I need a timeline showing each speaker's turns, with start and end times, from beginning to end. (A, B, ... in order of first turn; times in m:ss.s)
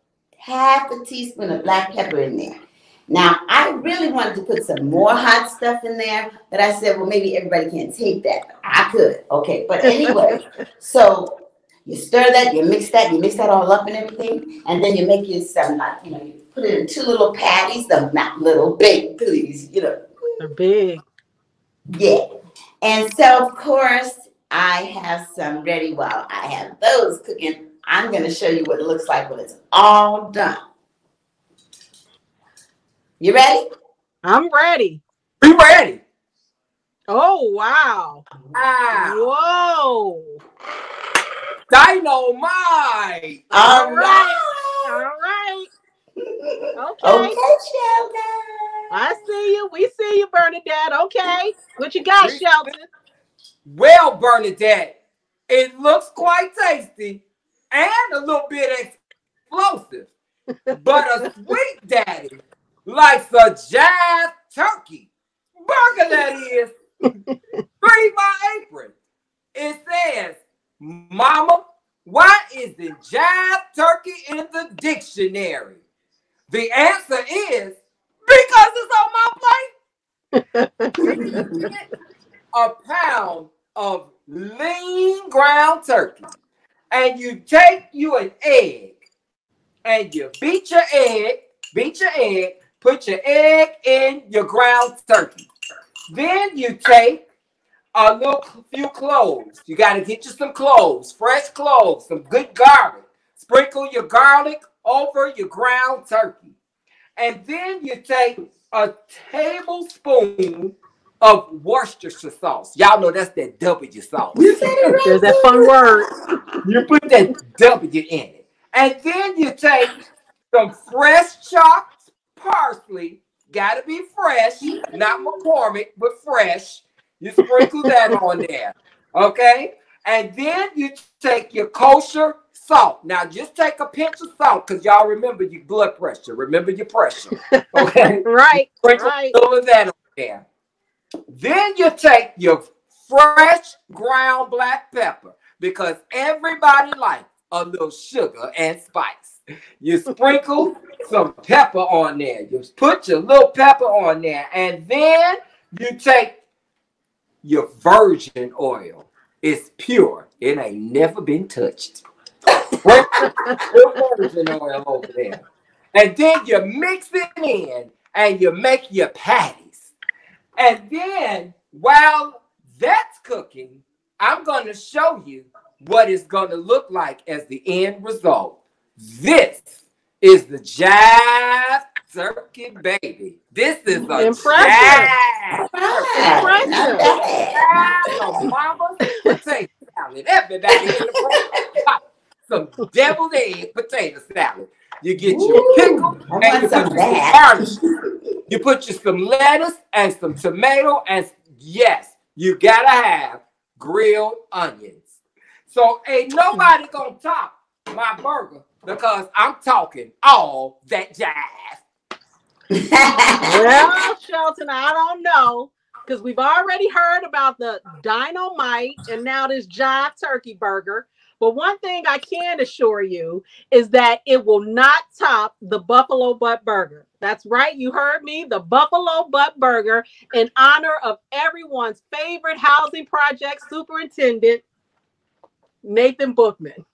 0:00.4-0:20.4 A
0:09.8-0:10.2 B
0:20.4-0:21.0 B
0:21.9-0:22.2 A
0:22.8-0:30.6 A
0:33.2-0:33.6 A
0:34.2-0:35.0 B
0:35.4-0:36.0 C
0:37.1-0:38.2 B
0:38.5-0:39.2 C
0:38.9-0:40.4 B
0:41.7-0:43.4 C
0:43.5-0:45.7 B
0:43.5-0:45.0 A
0:46.4-0:49.1 A
0:46.8-0:47.3 B
0:48.9-0:52.9 B
0:52.2-0:52.7 C
0:53.6-0:55.0 C
0:55.5-0:59.0 C
0:59.5-1:00.1 C
1:00.7-1:01.0 B
1:00.7-1:06.8 C
1:07.8-1:08.9 C
1:09.5-1:15.8 C
1:16.5-1:19.7 C
1:20.3-1:21.6 B
1:21.0-1:21.8 C
1:21.1-1:21.4 A
1:22.5-1:26.2 C
1:26.9-1:28.9 C
1:29.8-1:35.4 C
1:36.1-1:37.2 C
1:37.9-1:46.5 C
1:47.2-1:54.9 C
1:54.3-1:56.4 A
1:55.0-1:56.1 B
1:56.6-1:59.9 C
2:00.5-2:20.4 C
2:04.6-2:05.3 A
2:17.5-2:19.4 B
2:21.3-2:36.4 C
2:37.4-2:42.0 C
2:42.8-2:45.4 C
2:45.9-2:49.9 C
2:50.6-2:59.6 C
3:00.2-3:17.7 C
3:04.1-3:05.1 B
3:05.7-3:07.9 A
3:06.3-3:07.1 B
3:15.2-3:18.1 A
3:18.5-3:25.0 C
3:25.7-3:31.8 C
3:32.8-3:33.8 A
3:33.4-3:54.6 B
3:55.8-3:56.8 B